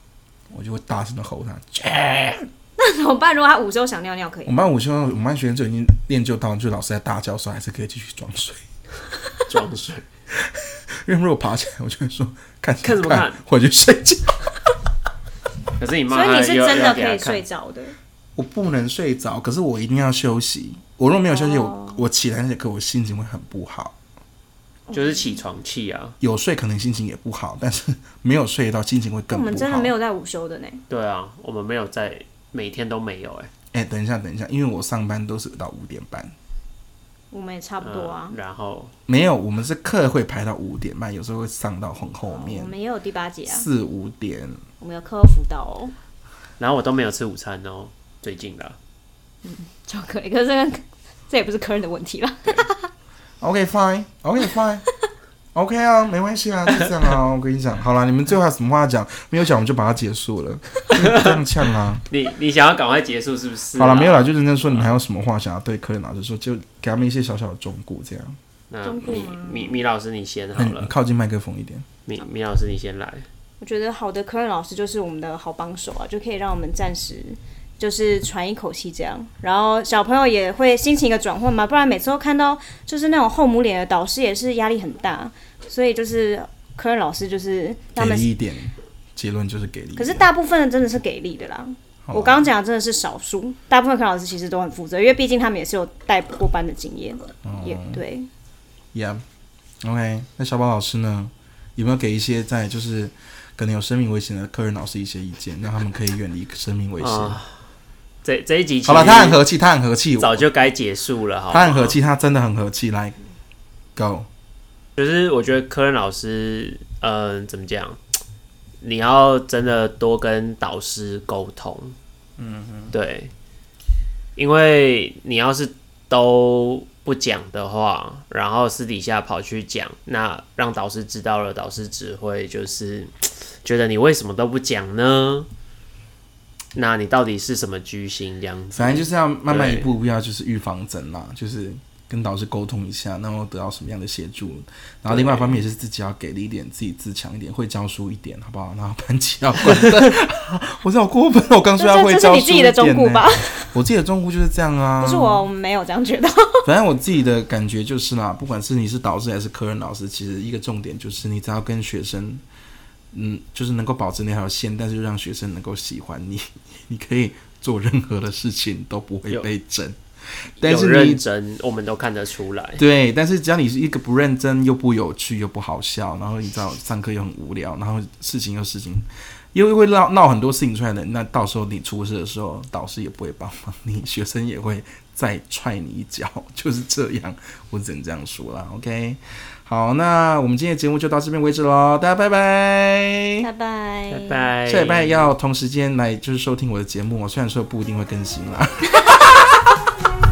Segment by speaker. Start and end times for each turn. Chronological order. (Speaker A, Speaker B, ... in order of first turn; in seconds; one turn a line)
Speaker A: 0.5-2.5
Speaker B: 2.8-4.6
Speaker A: 4.5-8.6
Speaker C: 9.5-10.1
Speaker A: 10.3-14.5
Speaker C: 12.8-13.4
Speaker C: 15.8-17.4
Speaker B: 16.1-17.9
Speaker A: 18.4-23.9
Speaker B: 21.3-22.0
Speaker B: 24.9-25.4
Speaker C: 24.9-26.1
Speaker A: 26.2-29.9
Speaker B: 29.3-30.8
Speaker C: 30.9-33.5
Speaker A: 33.7-36.3
Speaker B: 37.3-38.4
Speaker C: 37.8-38.9
Speaker A: 39.1-42.7
Speaker B: 42.2-43.7
Speaker A: 43.5-44.6
Speaker B: 44.8-45.9
Speaker C: 46.6-48.8
Speaker B: 49.4-52.9
Speaker A: 53.4-54.8
Speaker A: 55.5-62.0
Speaker C: 61.0-61.3
Speaker C: 62.1-64.9
Speaker A: 63.7-68.4
Speaker C: 68.7-70.9
Speaker B: 68.8-69.8
Speaker A: 70.5-71.8
Speaker C: 72.0-73.2
Speaker B: 73.6-88.3
Speaker A: 88.0-90.3
Speaker B: 90.0-98.3
Speaker A: 92.0-92.5
Speaker A: 97.4-98.0
Speaker A: 98.9-99.2
Speaker A: 99.8-107.4
Speaker C: 107.0-107.5
Speaker C: 108.2-109.4
Speaker A: 108.8-110.5
Speaker C: 110.2-112.0
Speaker A: 111.5-113.2
Speaker A: 113.9-114.3
Speaker C: 115.0-118.0
Speaker C: 118.8-121.9
Speaker A: 122.4-122.9
Speaker C: 122.9-123.3
Speaker C: 124.3-135.5
Speaker C: 136.7-139.9
Speaker A: 138.7-155.4
Speaker C: 145.1-145.6
Speaker B: 151.8-153.7
Speaker B: 155.0-156.7
Speaker A: 156.6-162.4
Speaker A: 163.1-170.0
Speaker A: 170.6-171.2
Speaker C: 170.6-172.8
Speaker A: 172.8-193.4
Speaker B: 193.4-194.5
Speaker C: 194.1-195.3
Speaker A: 194.7-199.7